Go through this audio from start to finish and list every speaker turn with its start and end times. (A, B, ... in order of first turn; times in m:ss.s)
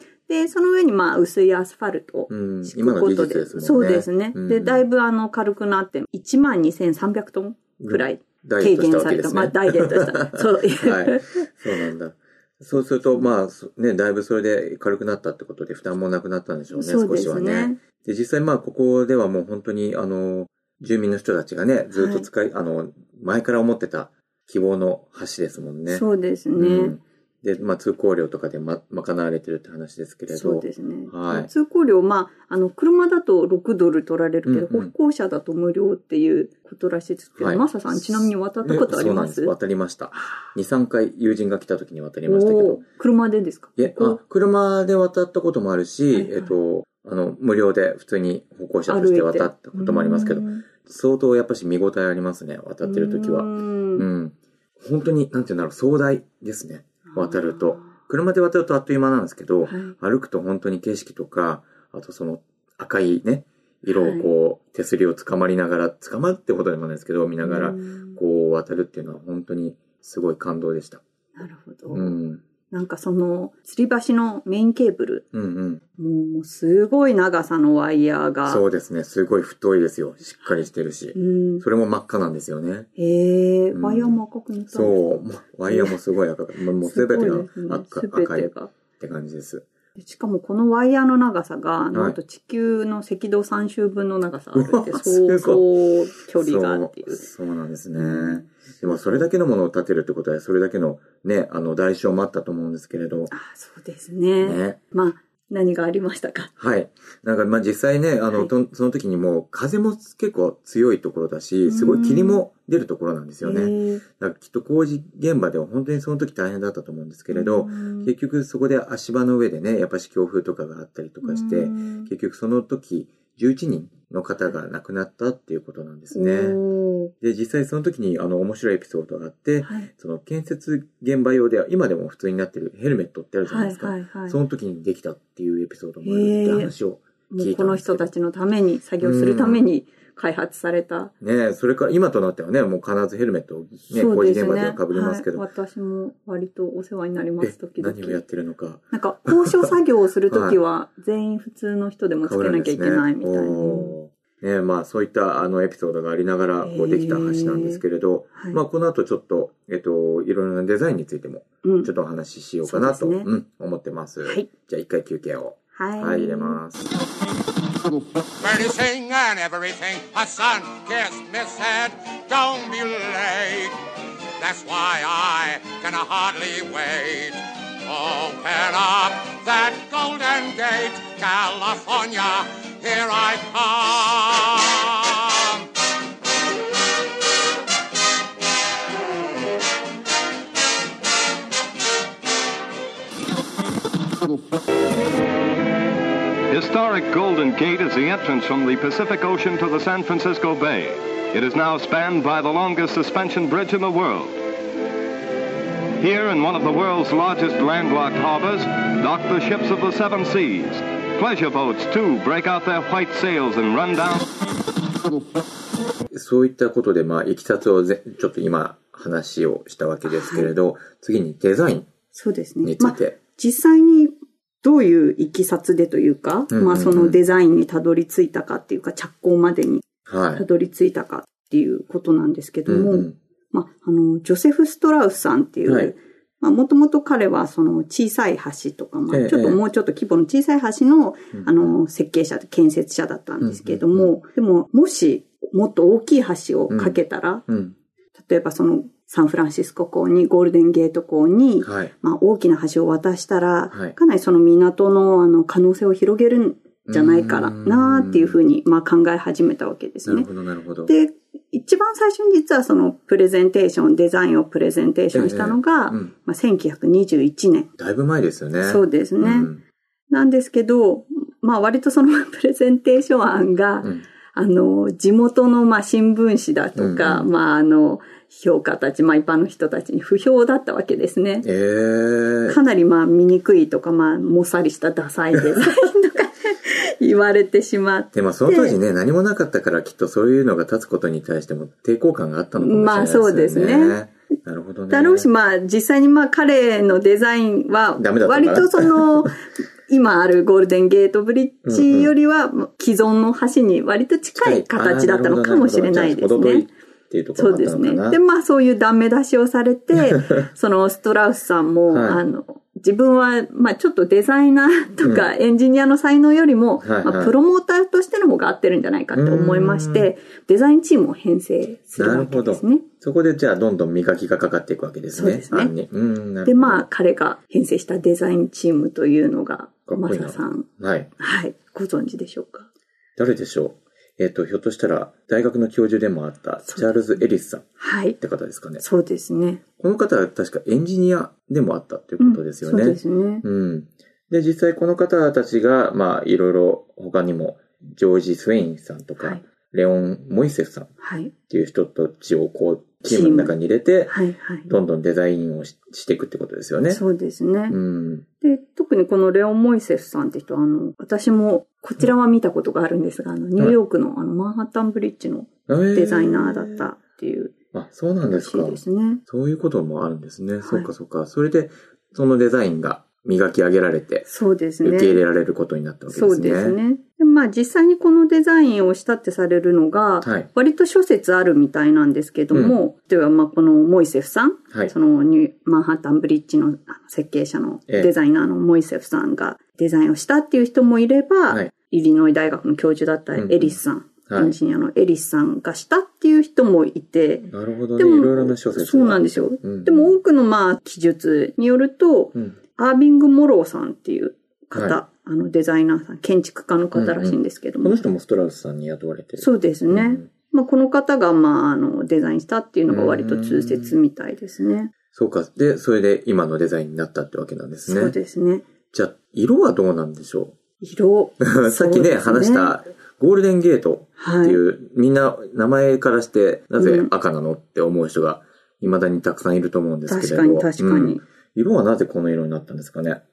0:00.3-0:11.5 A
0:02.3-0:04.8 B
0:07.8-0:31.5 B
0:16.7-0:17.8 A
0:21.9-0:22.3 A
0:25.9-0:27.0 A
0:30.3-0:39.5 A
0:34.4-0:34.9 B
0:37.4-0:42.8 B
0:40.2-0:40.4 A
0:42.3-0:44.2 A
0:43.8-1:11.0 B
0:46.1-0:46.5 A
0:48.9-0:50.6 A
0:52.8-0:54.1 A
0:57.1-0:57.9 A
0:59.6-0:59.9 A
1:03.8-1:04.3 A
1:07.4-1:08.2 A
1:11.4-1:12.2 A
1:11.9-1:12.4 B
1:12.7-1:15.2 A
1:15.3-1:15.8 B
1:16.0-1:18.6 A
1:18.4-1:22.9 B
1:21.1-1:21.6 A
1:23.0-1:25.0 A
1:23.7-1:29.6 B
1:25.7-1:26.0 A
1:26.8-1:28.7 A
1:30.0-1:37.2 A
1:31.9-1:32.2 B
1:34.5-1:35.6 B
1:36.3-1:43.3 B
1:37.9-1:39.2 A
1:43.3-1:46.5 A
1:44.4-1:44.8 B
1:46.6-2:06.6 B
1:51.6-1:52.4 A
1:53.4-1:54.0 A
1:57.3-1:58.1 A
2:01.2-2:02.1 A
2:06.1-2:07.1 A
2:07.2-2:18.1 B
2:09.6-2:09.9 A
2:13.5-2:14.4 A
2:16.0-2:16.7 A
2:17.3-2:21.1 A
2:19.0-2:19.6 B
2:21.2-2:25.4 B
2:23.9-2:28.2 A
2:27.4-2:29.7 B
2:28.9-2:34.0 A
2:30.3-2:30.6 B
2:32.2-2:46.9 B
2:36.6-2:37.8 A
2:38.3-2:38.6 A
2:41.6-2:41.9 A
2:42.6-2:43.3 A
2:45.7-2:46.6 A
2:48.4-2:53.8 C
2:54.4-3:05.6 C
3:16.5-3:24.4 D
3:26.0-3:34.3 D
3:36.1-3:41.9 B
3:40.0-3:40.5 A
3:42.1-4:07.4 A
3:42.6-3:43.2 B
3:46.5-3:47.2 B
3:50.1-3:50.4 B
3:52.7-3:53.2 B
3:55.6-3:55.9 B
3:59.1-3:59.6 B
4:01.3-4:01.7 B
4:03.4-4:04.1 B
4:06.7-4:07.7 B
4:08.2-4:20.3 A
4:11.6-4:11.9 B
4:16.9-4:18.4 B
4:20.0-4:20.9 B
4:20.8-4:27.7 A
4:25.1-4:26.1 B
4:27.8-4:29.6 B
4:28.6-4:29.5 A
4:30.1-4:41.5 A
4:36.8-4:37.3 B
4:41.4-4:42.6 B
4:42.5-4:48.8 A
4:48.1-4:55.3 B
4:52.6-4:54.0 A
4:54.9-5:06.7 A
4:58.0-4:59.3 B
5:01.6-5:02.1 B
5:04.3-5:08.2 B
5:07.4-5:22.8 A
5:10.0-5:10.2 B
5:11.9-5:12.2 B
5:15.0-5:15.3 B
5:16.8-5:17.3 B
5:19.1-5:20.1 B
5:21.9-5:26.9 B
5:25.1-5:25.7 A
5:26.4-5:30.7 A
5:29.9-5:31.1 B
5:31.2-5:32.7 A
5:33.2-5:38.8 B
5:37.8-5:38.2 A
5:38.8-5:39.6 A
5:39.8-5:50.9 B
5:42.2-5:43.4 A
5:51.0-5:51.3 A
5:51.5-5:57.0 B
5:53.0-5:53.5 A
5:54.1-5:54.7 A
5:56.9-5:57.8 A
5:57.7-5:58.2 B
5:58.4-6:07.5 A
6:05.7-6:06.8 B
6:07.7-6:14.2 B
6:08.2-6:09.2 A
6:10.6-6:10.9 A
6:14.2-6:15.2 A
6:14.8-6:16.8 B
6:16.1-6:48.1 A
6:20.2-6:20.5 B
6:22.5-6:22.8 B
6:33.3-6:33.8 B
6:34.3-6:34.5 B
6:37.5-6:40.1 B
6:44.7-6:45.0 B
6:46.9-6:50.3 B
6:49.4-6:54.9 A
6:52.9-6:53.9 B
6:55.1-6:58.2 B
6:57.9-6:58.6 A
6:58.9-7:00.6 B
7:00.8-7:02.7 A
7:01.4-7:13.2 B
7:04.2-7:04.6 A
7:06.8-7:07.1 A
7:10.1-7:11.2 A